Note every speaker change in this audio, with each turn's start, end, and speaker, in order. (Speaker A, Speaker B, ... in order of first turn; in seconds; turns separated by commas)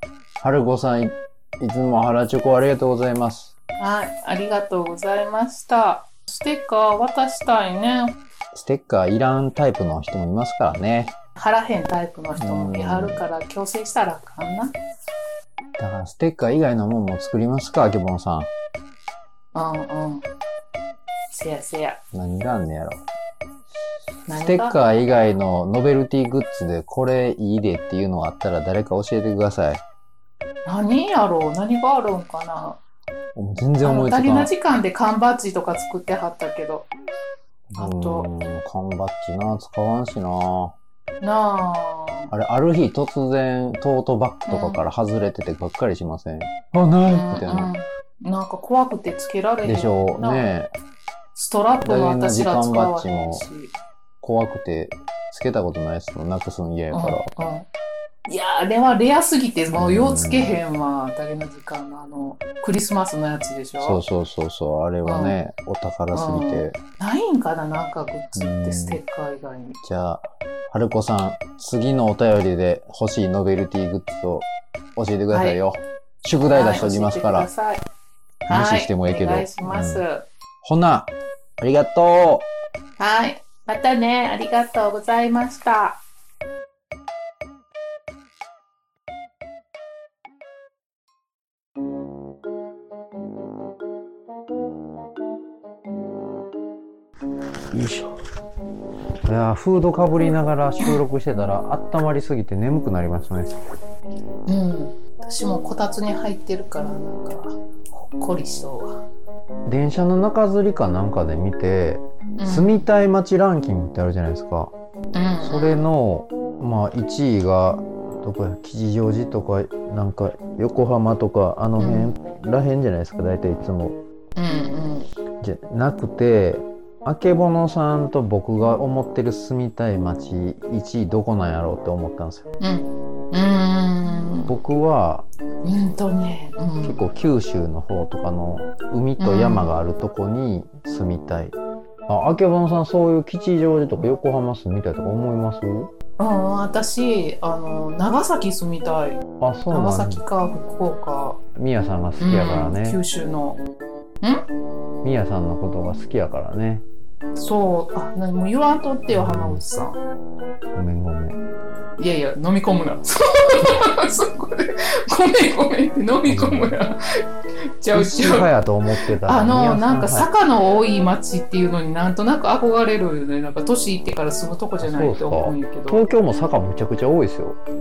Speaker A: 0.4-3.5, Speaker B: 3.8-8.2, Speaker A: 8.5-11.1, Speaker B: 11.3-14.7, Speaker A: 12.4-13.2, Speaker A: 15.8-18.5, Speaker B: 19.5-20.2, Speaker B: 21.3-22.0, Speaker A: 22.1-23.0, Speaker B: 24.3-24.8, Speaker A: 24.3-29.8, Speaker B: 30.6-32.8, Speaker A: 33.3-34.5, Speaker B: 33.8-36.9, Speaker A: 37.7-40.8, Speaker B: 37.8-38.3, Speaker B: 41.2-42.3, Speaker A: 42.3-47.7, Speaker B: 44.5-44.8, Speaker B: 47.1-50.5, Speaker A: 49.6-50.7, Speaker B: 51.3-53.7, Speaker A: 51.8-53.5, Speaker A: 54.2-57.3, Speaker B: 56.9-57.7, Speaker B: 58.2-64.0, Speaker A: 59.7-60.6, Speaker A: 63.8-66.8, Speaker B: 65.0-65.4, Speaker B: 66.1-69.8, Speaker A: 68.3-69.0, Speaker A: 69.8-77.5, Speaker B: 75.3-75.6, Speaker B: 76.5-77.8, Speaker B: 78.5-80.3, Speaker A: 78.5-80.0, Speaker A: 80.6-82.5, Speaker B: 83.0-86.0, Speaker A: 97.7-98.1, Speaker A: 99.3-103.5, Speaker B: 104.5-109.0, Speaker A: 109.7-114.7, Speaker B: 112.4-112.9, Speaker B: 115.1-115.8, Speaker A: 115.4-124.0, Speaker B: 121.8-122.1, Speaker B: 124.3-125.1, Speaker A: 125.4-132.5, Speaker B: 132.6-134.5, Speaker A: 134.5-135.2, Speaker B: 135.6-137.0, Speaker A: 136.8-145.9, Speaker B: 139.2-139.8, Speaker B: 146.2-151.4, Speaker A: 149.4-150.2, Speaker A: 151.6-153.0, Speaker B: 152.2-153.6, Speaker A: 155.0-156.8, Speaker B: 157.4-160.0, Speaker A: 159.1-159.6, Speaker A: 160.7-161.4, Speaker B: 162.0-166.9, Speaker A: 166.3-166.8, Speaker B: 167.8-168.5, Speaker A: 167.9-170.3, Speaker B: 169.2-176.0, Speaker A: 174.8-177.6